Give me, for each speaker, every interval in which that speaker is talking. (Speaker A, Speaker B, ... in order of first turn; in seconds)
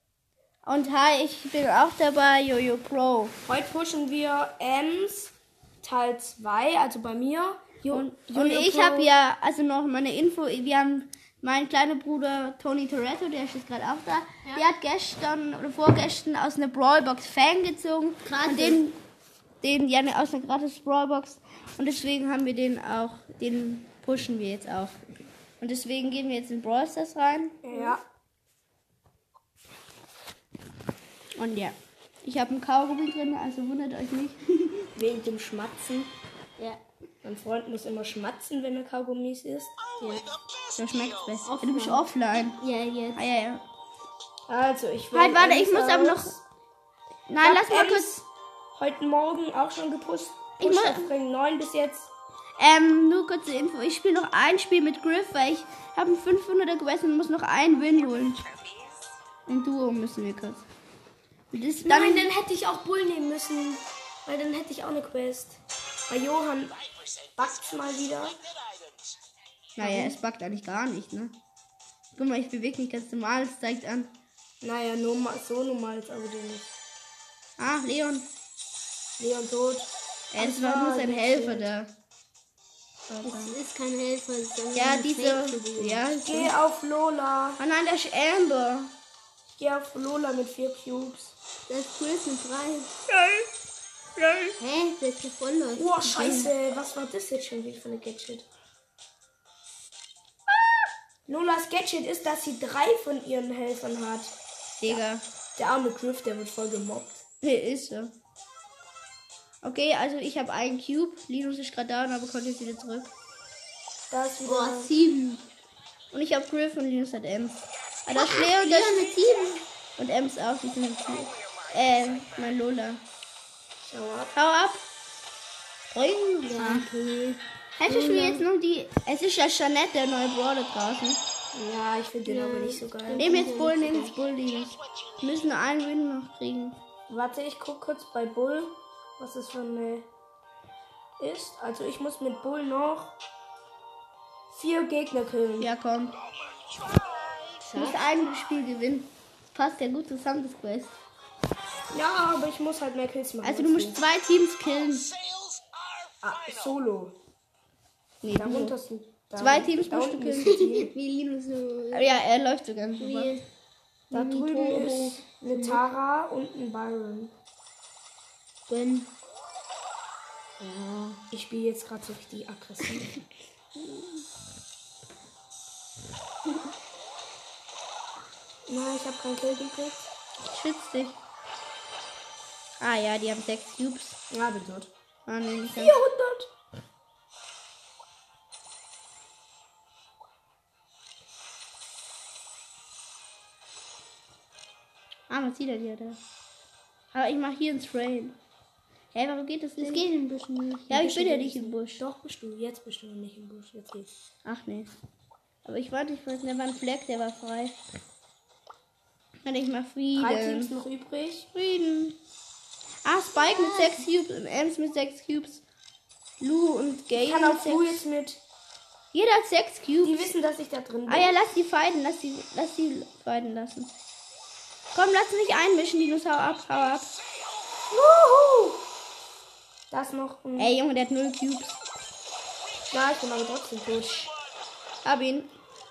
Speaker A: 0.6-3.3, 7.9-19.0, 19.6-25.0, 25.6-27.6, 31.4-34.4, 40.8-42.6, 43.1-43.6, 45.1-46.3, 47.3-48.1, 50.6-51.1, 52.6-58.5, 59.5-60.6, 61.5-62.3, 69.8-71.4, 72.1-74.2, 77.6-78.3, 80.3-81.9, 83.1-83.6, 84.8-86.5, 87.6-88.9, 96.2-96.5, 104.8-105.2, 107.4-108.1, 109.6-113.1, 116.1-119.1, 120.0-123.0, 124.3-124.8, 125.9-126.9, 127.8-131.2, 133.2-136.8, 145.6-146.2, 147.7-151.0, 153.4-155.1, 158.2-158.8, 159.4-160.6, 161.9-163.3, 180.5-181.2, 182.8-184.2, 185.3-186.0, 195.3-196.2, 197.1-198.4, 199.1-200.1, 200.9-202.0, 204.4-204.9, 205.6-207.8, 209.4-210.7, 211.5-212.2, 213.0-215.6, 216.4-218.0, 219.1-220.3, 221.1-223.9, 224.9-227.1, 230.6-231.8, 235.0-235.5
Speaker B: 3.5-9.1, 27.6-28.0, 35.0-36.1, 37.2-39.7, 44.5-46.4, 47.4-52.1, 61.9-66.8, 67.4-68.4, 69.8-70.2, 74.6-76.7, 79.2-81.7, 86.2-87.6, 89.5-91.4, 93.2-93.5, 95.8-98.5, 101.3-104.3, 105.6-107.2, 114.1-114.9, 123.8-124.3, 131.5-133.5, 137.1-140.1, 141.2-143.2, 144.5-145.7, 151.9-154.0, 156.2-157.2, 158.3-160.9, 164.1-167.3, 171.3-173.2, 178.7-180.1, 184.3-184.9, 185.8-186.5, 200.9-204.1, 210.2-211.5, 217.2-218.4, 220.0-221.3, 227.9-228.8, 229.9-230.7, 232.9-234.3
Speaker C: 18.2-18.8, 27.7-28.0, 40.0-40.3, 41.5-42.0, 42.6-43.2, 83.2-86.0, 91.7-92.9, 94.6-96.5, 114.5-115.5, 118.2-119.7, 126.5-128.4, 132.3-134.1, 160.5-162.1, 163.0-163.4, 164.1-165.8, 168.7-169.1, 170.6-171.2, 199.8-201.0, 213.4-214.1